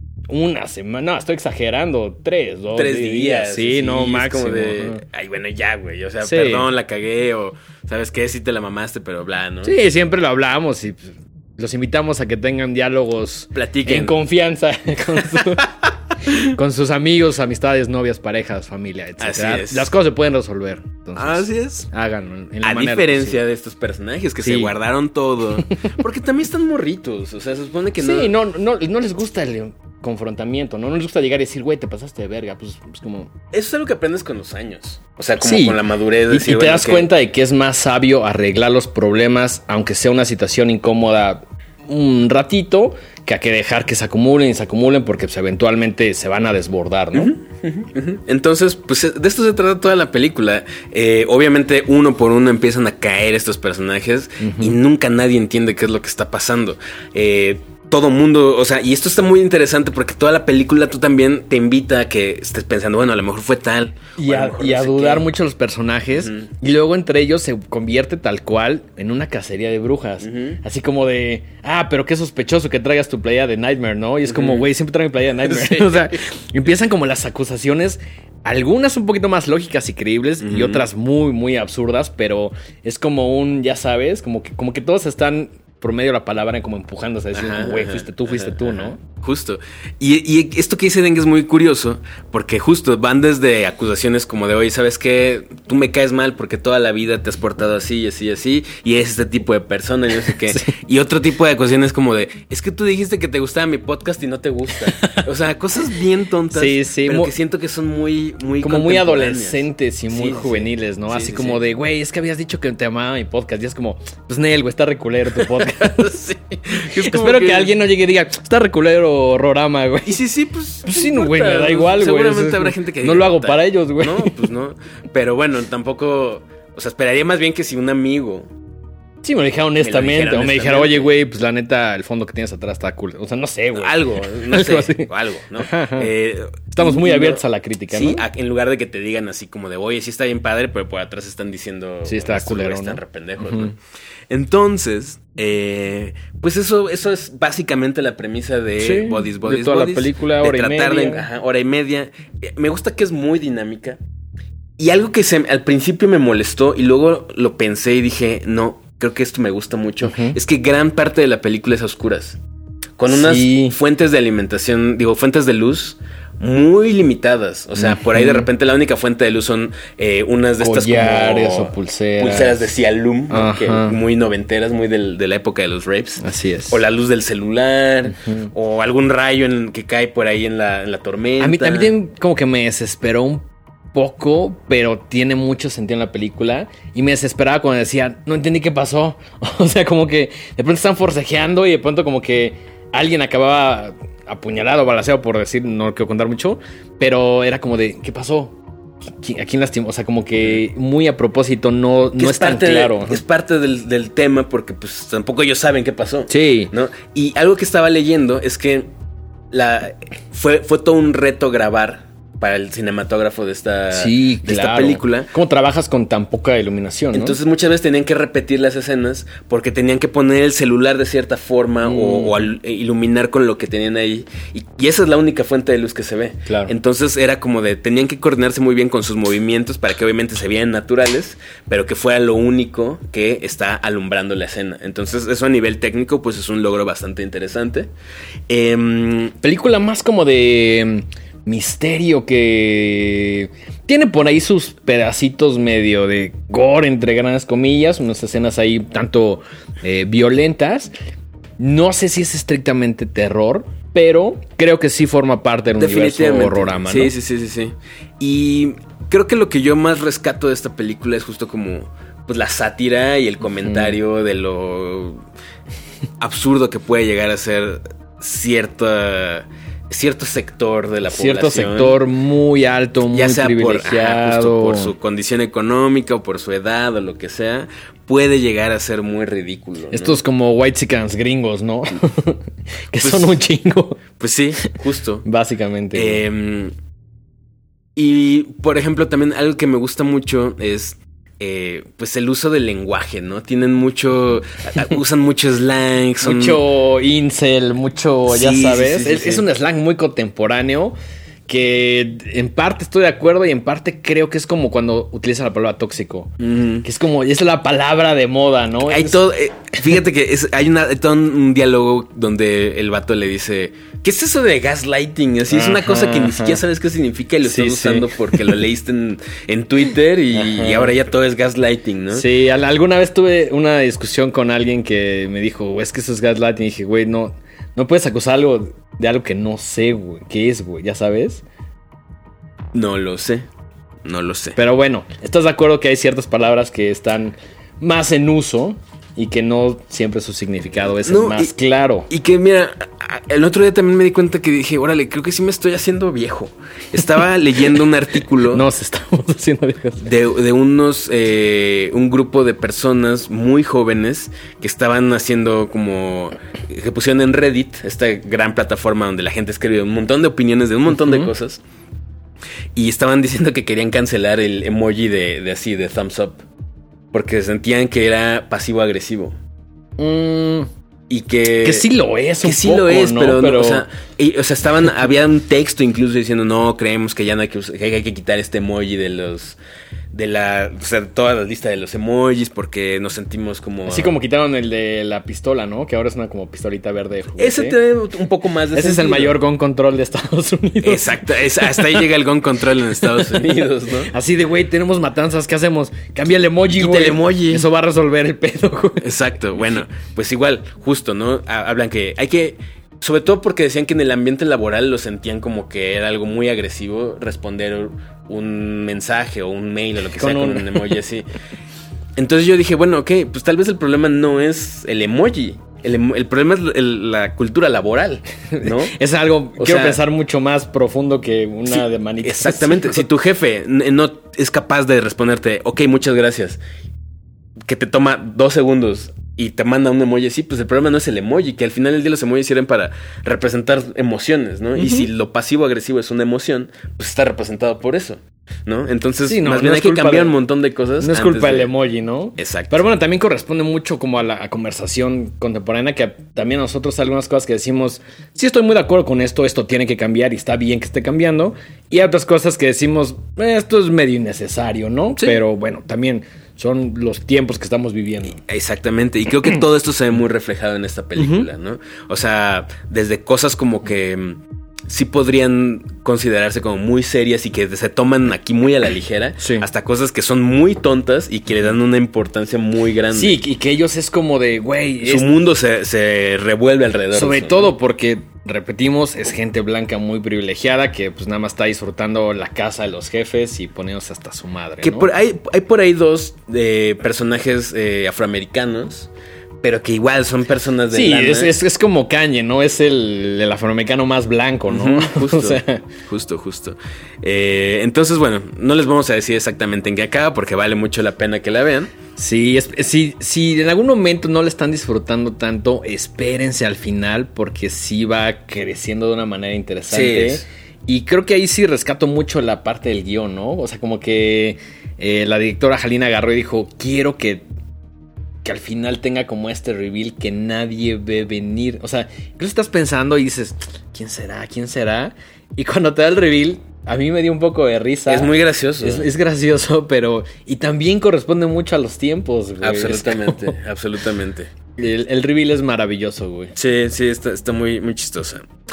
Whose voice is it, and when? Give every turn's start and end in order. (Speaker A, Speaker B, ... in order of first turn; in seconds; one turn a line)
Speaker A: 0.3-5.0
Speaker B: 2.7-9.7
Speaker A: 6.2-6.7
Speaker A: 9.6-23.4
Speaker B: 13.5-14.1
Speaker B: 19.2-19.9
Speaker B: 21.1-21.9
Speaker B: 22.6-28.3
Speaker A: 24.4-24.7
Speaker A: 28.0-33.3
Speaker B: 33.5-37.1
Speaker A: 35.4-35.8
Speaker A: 36.3-47.3
Speaker B: 47.1-65.3
Speaker A: 54.4-54.8
Speaker A: 64.2-89.0
Speaker B: 66.1-66.5
Speaker B: 70.2-70.6
Speaker B: 74.3-74.7
Speaker B: 75.4-76.1
Speaker B: 80.4-80.8
Speaker B: 87.3-111.6
Speaker A: 100.5-100.7
Speaker A: 106.5-107.3
Speaker A: 108.6-120.2
Speaker B: 115.3-117.7
Speaker B: 120.0-128.5
Speaker A: 120.8-124.4
Speaker A: 129.2-136.1
Speaker B: 129.8-131.1
Speaker B: 133.8-143.7
Speaker A: 136.7-138.2
Speaker A: 142.0-143.7
Speaker B: 144.3-154.0
Speaker A: 148.8-151.2
Speaker B: 154.8-162.4
Speaker A: 160.0-160.4
Speaker B: 163.0-181.9
Speaker A: 163.1-163.8
Speaker A: 167.8-168.5
Speaker A: 170.6-172.6
Speaker A: 173.3-174.0
Speaker A: 176.2-176.8
Speaker A: 178.2-178.5
Speaker A: 181.4-198.6
Speaker A: 199.2-203.2
Speaker B: 202.2-208.9
Speaker A: 206.3-206.7
Speaker B: 209.5-215.3
Speaker A: 213.9-217.4
Speaker B: 217.1-237.9
Speaker A: 221.8-222.4
Speaker A: 226.4-226.7
Speaker B: 238.5-239.3
Speaker A: 239.4-250.9
Speaker A: 251.6-257.1
Speaker B: 255.8-265.2
Speaker A: 263.6-263.9
Speaker B: 266.2-272.0
Speaker A: 271.1-274.9
Speaker B: 273.1-280.2
Speaker A: 279.9-284.0
Speaker B: 283.0-283.4
Speaker B: 284.2-285.2
Speaker A: 284.6-286.2
Speaker B: 285.9-286.7
Speaker B: 287.9-296.6
Speaker A: 296.2-300.9
Speaker B: 298.3-299.4
Speaker A: 301.5-309.2
Speaker B: 306.4-306.8
Speaker B: 308.8-322.2
Speaker A: 315.5-316.6
Speaker A: 317.4-318.5
Speaker A: 320.3-320.9
Speaker A: 322.1-331.4
Speaker B: 332.7-333.5
Speaker B: 334.0-334.6
Speaker A: 334.6-342.1
Speaker B: 341.0-341.5
Speaker B: 342.1-348.6
Speaker A: 348.5-350.1
Speaker B: 350.0-361.6
Speaker B: 362.7-366.4
Speaker B: 367.1-369.4
Speaker A: 370.0-370.7
Speaker B: 371.1-371.9
Speaker A: 371.6-373.8
Speaker B: 372.4-379.6
Speaker B: 380.1-384.1
Speaker A: 383.9-387.8
Speaker B: 387.4-389.4
Speaker A: 388.7-392.1
Speaker B: 390.8-394.1
Speaker A: 393.0-399.1
Speaker B: 396.7-397.7
Speaker B: 399.0-411.3
Speaker A: 410.1-411.0
Speaker B: 412.1-418.9
Speaker A: 418.5-423.0
Speaker B: 419.6-420.0
Speaker B: 421.7-426.6
Speaker B: 427.6-441.7
Speaker A: 434.8-435.1
Speaker A: 439.2-440.4
Speaker A: 441.0-458.4
Speaker B: 442.4-442.8
Speaker B: 458.4-473.4
Speaker A: 461.2-461.5
Speaker A: 469.4-469.6
Speaker A: 473.1-475.3
Speaker B: 475.0-477.7
Speaker A: 477.1-485.1
Speaker B: 484.8-489.1
Speaker B: 489.6-491.5
Speaker A: 490.9-495.9
Speaker B: 494.7-501.9
Speaker A: 502.2-517.5
Speaker B: 509.9-510.4
Speaker A: 518.4-533.5
Speaker B: 528.1-529.1
Speaker B: 532.6-534.5
Speaker A: 534.8-536.5
Speaker B: 536.5-538.5